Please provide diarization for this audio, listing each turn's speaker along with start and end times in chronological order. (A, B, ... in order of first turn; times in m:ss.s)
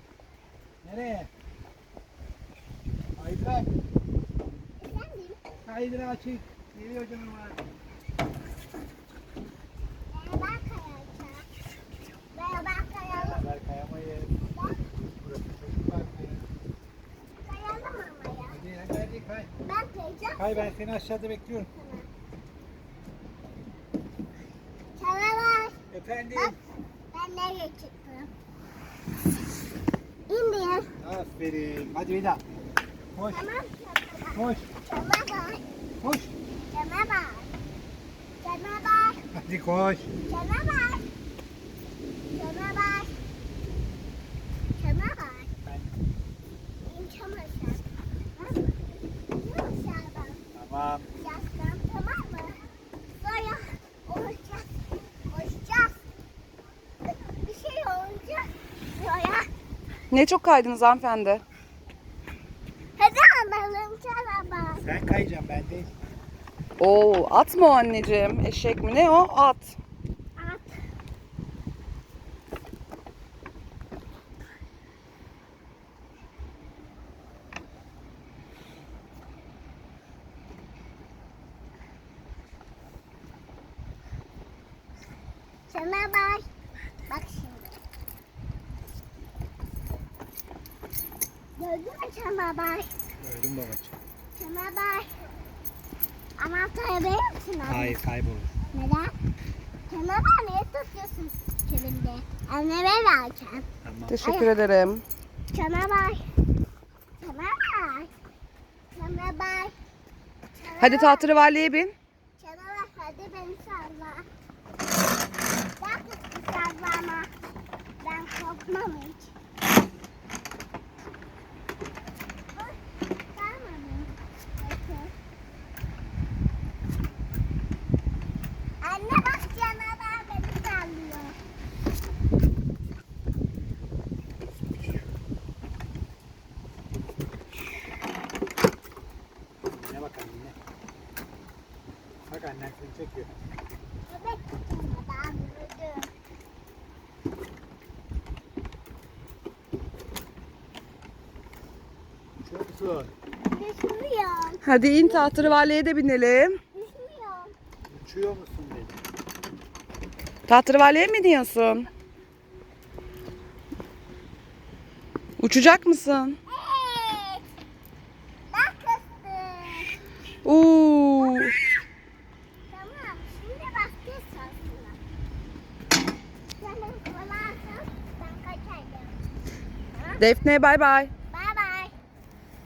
0:00.8-0:01.3 A
0:03.2-0:03.7 A
0:04.8-0:05.4 B
0:05.6-0:07.6 A
0:10.1-0:11.5 B
0:12.3-0:13.4 B
0:13.1-0:14.4 A
0:14.4-0:14.8 B
0:15.2-0:16.5 A
0:17.4-0:18.6 B
0:18.5-0:19.5 A
0:19.6-0:20.8 B
0:20.4-0:21.7 A
0:21.7-0:22.1 B
0:25.0-0:25.8 B
0:25.9-0:26.6 A
0:27.1-0:28.3 B
0:30.3-0:31.0 B
0:31.0-0:32.4 A
0:33.2-0:33.5 A
0:33.3-0:35.6 B
0:34.3-0:34.7 A
0:36.0-0:36.3 A
0:36.7-0:37.5 B
0:38.4-0:39.2 B
0:39.3-0:40.1 A
0:40.3-0:41.1 B
0:42.3-0:43.1 B
0:44.8-0:45.5 B
0:45.6-0:45.9 A
0:46.8-0:50.4 B
0:50.5-0:51.1 A
0:51.2-0:52.6 B
0:53.2-0:56.0 B
0:57.0-0:59.5 B
1:00.1-1:01.4 C
1:03.0-1:04.8 B
1:04.8-1:05.9 A
1:06.8-1:09.8 C
1:10.4-1:10.8 B
1:25.7-1:26.5 B
1:27.1-1:27.8 B
1:31.6-1:32.9 B
1:33.2-1:34.0 A
1:34.4-1:35.3 B
1:36.4-1:38.0 B
1:37.7-1:38.5 A
1:38.7-1:39.1 B
1:39.9-1:43.7 B
1:43.8-1:44.2 A
1:44.1-1:45.0 C
1:44.2-1:44.6 B
1:45.5-1:46.3 B
1:47.2-1:48.1 B
1:48.9-1:49.8 B
1:50.6-1:51.3 B
1:50.8-1:51.9 C
1:52.4-1:54.3 B
1:55.8-1:57.3 B
1:58.0-1:59.3 B
2:03.3-2:05.1 B
2:08.8-2:11.4 B
2:19.7-2:20.6 A
2:22.3-2:23.3 A
2:24.1-2:26.1 B
2:32.4-2:33.1 A
2:33.5-2:35.4 B
2:34.6-2:36.6 C
2:36.7-2:37.6 B
2:37.9-2:39.0 A
2:40.5-2:41.9 C
2:45.4-2:46.4 C
2:46.5-2:47.4 B
2:48.5-2:50.0 B
2:50.4-2:51.6 C
2:52.7-2:55.0 B
2:56.6-2:59.2 B
2:59.9-3:00.3 B
3:00.2-3:01.1 C
3:01.3-3:01.9 B